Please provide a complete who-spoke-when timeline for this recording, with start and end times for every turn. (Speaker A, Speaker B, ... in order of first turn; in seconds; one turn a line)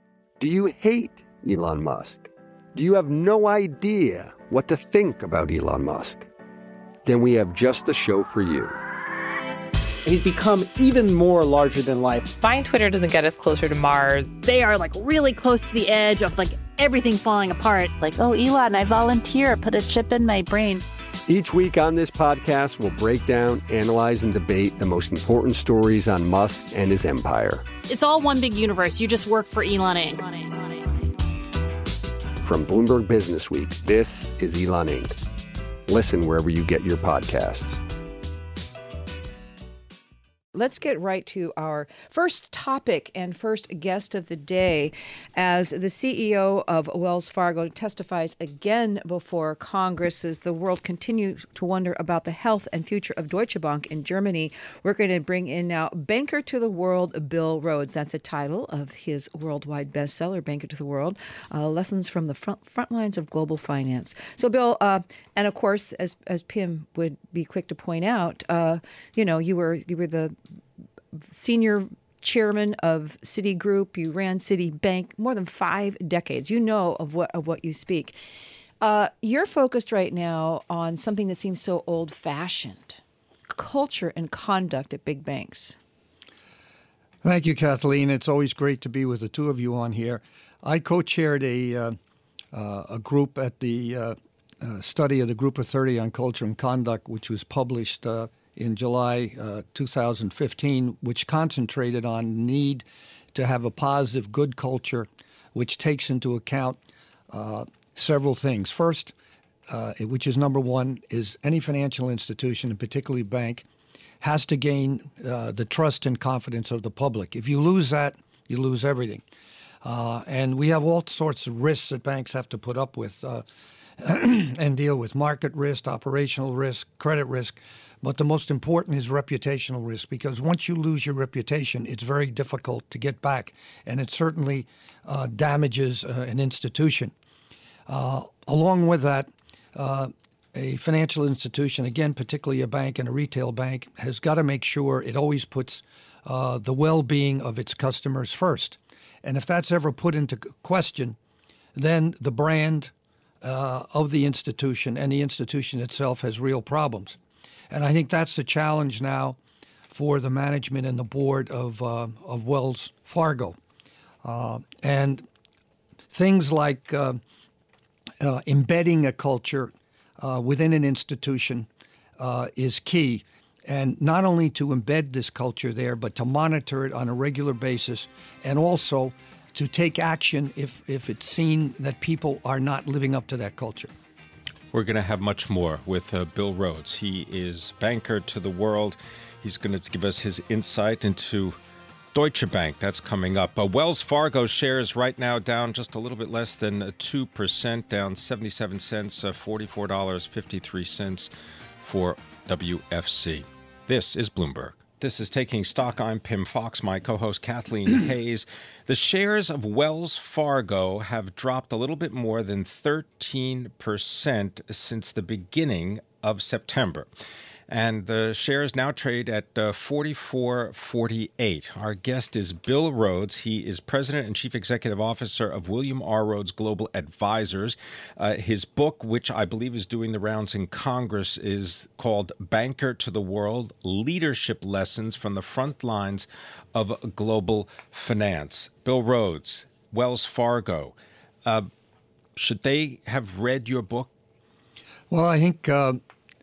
Speaker A: 0.4-6.3
Speaker A: 7.0-8.8
Speaker B: 10.0-12.3
Speaker C: 12.4-14.3
Speaker D: 14.3-17.9
Speaker E: 18.0-20.8
Speaker A: 21.3-27.7
Speaker D: 27.9-31.0
Speaker A: 32.4-35.2
Speaker A: 35.9-37.8
Speaker F: 40.5-70.3
Speaker F: 71.3-78.2
Speaker F: 78.8-85.8
Speaker G: 87.2-91.9
Speaker G: 92.5-106.8
Speaker G: 107.3-109.1
Speaker G: 109.7-113.7
Speaker G: 114.2-119.2
Speaker G: 119.8-123.4
Speaker G: 124.0-137.1
Speaker G: 137.9-151.2
Speaker G: 151.7-157.2
Speaker G: 157.7-159.4
Speaker G: 159.9-163.6
Speaker G: 164.2-165.2
Speaker G: 166.1-167.2
Speaker G: 168.2-171.7
Speaker G: 172.2-183.9
Speaker H: 184.7-191.6
Speaker H: 192.1-201.3
Speaker H: 201.8-217.1
Speaker H: 217.7-241.7
Speaker H: 242.3-244.1
Speaker G: 245.1-246.0